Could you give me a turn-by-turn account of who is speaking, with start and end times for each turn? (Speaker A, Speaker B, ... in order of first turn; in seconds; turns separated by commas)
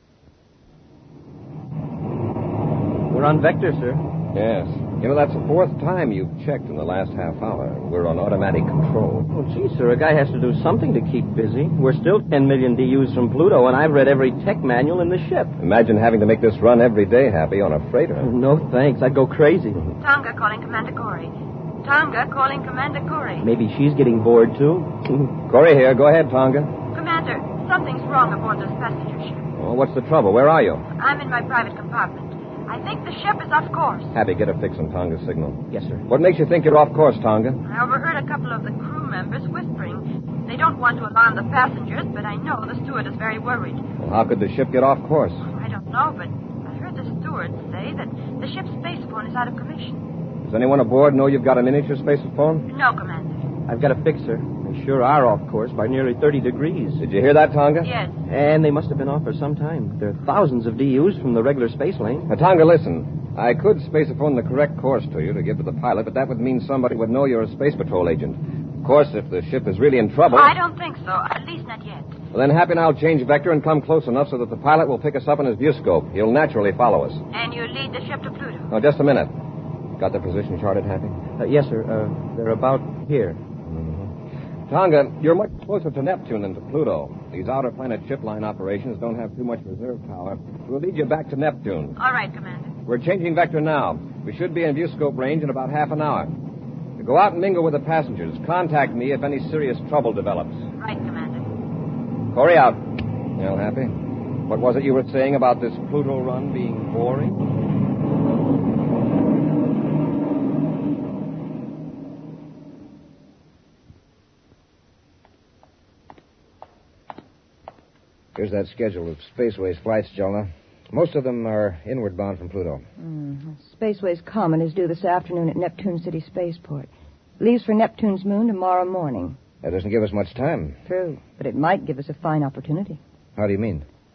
Speaker A: 3.1-4.0, Speaker B: 4.3-9.3, Speaker A: 9.3-15.6, Speaker B: 15.6-18.3, Speaker A: 18.2-19.9, Speaker C: 20.0-21.3, Speaker C: 21.8-23.5, Speaker A: 23.4-25.3, Speaker B: 25.4-26.7, Speaker C: 26.9-29.5, Speaker B: 29.6-30.8, Speaker C: 31.0-34.1, Speaker B: 34.1-37.6, Speaker A: 35.7-36.0, Speaker C: 37.6-43.8, Speaker B: 44.0-45.4, Speaker C: 45.5-50.1, Speaker B: 50.4-52.7, Speaker C: 52.7-53.5, Speaker A: 53.6-57.0, Speaker B: 57.0-57.9, Speaker C: 57.8-58.1, Speaker A: 58.3-62.3, Speaker B: 62.3-70.5, Speaker C: 70.3-72.1, Speaker B: 72.3-77.2, Speaker C: 77.3-78.7, Speaker B: 78.7-79.3, Speaker B: 80.0-81.2, Speaker A: 81.4-83.4, Speaker B: 83.6-84.1, Speaker B: 84.7-92.0, Speaker C: 92.0-92.8, Speaker B: 92.8-96.3, Speaker B: 97.0-100.6, Speaker C: 100.8-101.5, Speaker B: 102.3-107.4, Speaker D: 118.3-122.8, Speaker E: 123.0-129.4, Speaker D: 129.6-130.8, Speaker E: 130.9-133.0, Speaker D: 133.3-133.8